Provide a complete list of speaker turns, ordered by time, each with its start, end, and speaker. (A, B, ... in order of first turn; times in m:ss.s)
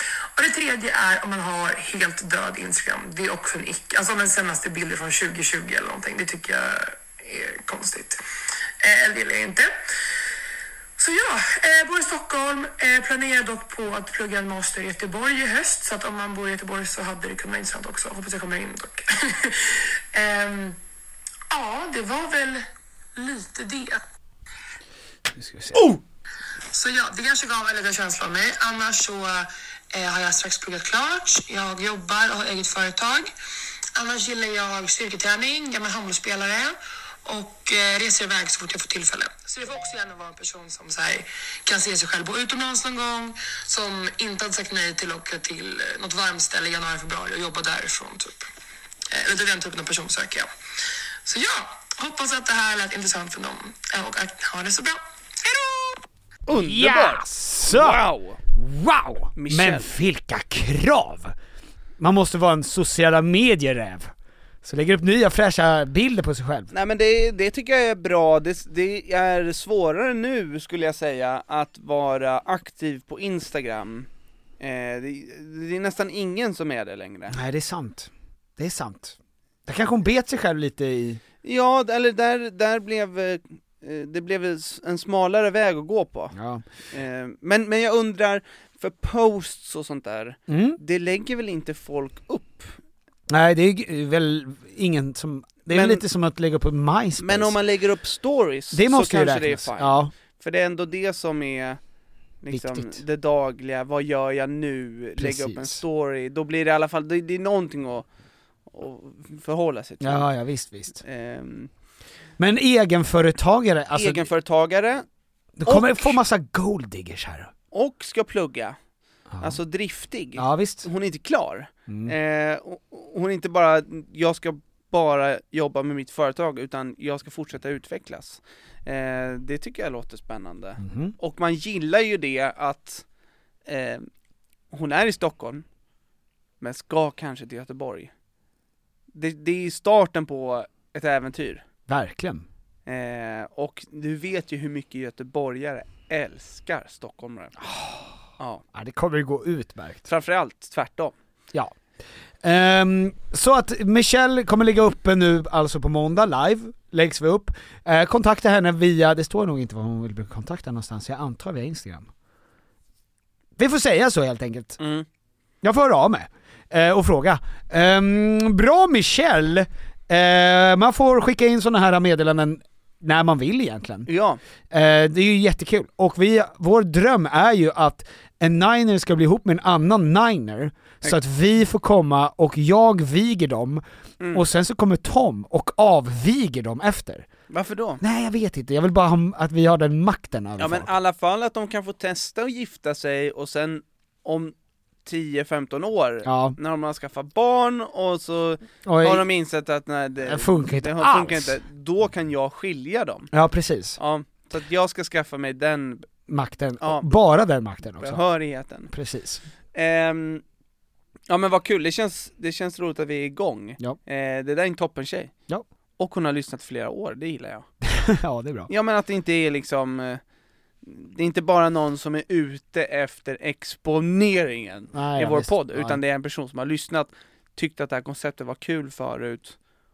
0:00.4-0:08.2 A
0:08.8-0:09.7 A
0:11.0-0:20.8 A
0:21.5-0:24.0 A
0:25.3-0:25.9 B
0:26.7-0:33.3 A
0:34.0-0:48.5 A
0:49.1-0:50.5 A
0:51.2-0:56.0 A
0:56.5-0:58.4 C
0:56.5-0:58.0 B
0:58.6-1:01.4 B
0:59.4-0:59.9 C
1:02.0-1:04.1 B
1:04.6-1:06.7 B
1:06.7-1:14.1 C
1:14.6-1:17.4 C
1:17.3-1:21.2 B
1:21.4-1:26.4 C
1:26.3-1:26.7 B
1:26.9-1:32.8 C
1:30.5-1:30.8 B
1:33.3-1:37.6 B
1:35.7-1:36.0 C
1:37.2-1:41.8 C
1:38.7-1:40.1 B
1:42.4-1:48.1 C
1:42.5-1:43.0 B
1:45.2-1:45.8 B
1:48.7-1:50.3 C
1:50.0-1:51.0 B
1:51.0-1:51.7 C
1:52.4-1:54.3 B
1:54.0-1:55.0 C
1:55.6-1:57.5 B
1:55.7-1:56.2 C
1:57.7-1:58.8 C
1:59.3-1:59.6 B
1:59.4-2:13.0 C
2:00.4-2:00.9 B
2:01.9-2:02.1 B
2:10.8-2:11.2 B
2:13.7-2:14.1 C
2:14.7-2:15.6 C
2:16.6-2:18.1 C
2:19.1-2:21.6 C
2:21.9-2:22.5 B
2:22.9-2:27.6 C
2:27.6-2:28.2 B
2:28.7-2:30.1 B
2:30.1-2:31.2 C
2:32.4-2:42.1 B
2:43.6-2:44.8 B
2:44.8-2:45.1 C
2:45.6-2:54.1 B
2:54.1-2:54.4 C
2:54.7-3:03.8 B
3:04.3-3:07.3 B
3:07.5-3:08.0 C
3:08.0-3:10.9 B
3:10.6-3:14.5 C
3:15.0-3:23.3 C
3:16.2-3:16.6 B
3:18.9-3:19.3 B
3:20.2-3:21.6 B
3:23.3-3:24.0 B
3:24.0-3:26.1 C
3:26.3-3:28.2 B
3:26.8-3:27.1 C
3:28.0-3:28.9 C
3:28.9-3:29.4 B
3:29.7-3:30.4 C
3:31.3-3:35.3 C
3:36.0-3:37.7 C
3:37.8-3:38.7 B
3:38.7-3:40.2 C
3:40.8-3:49.6 C
3:44.9-3:46.0 B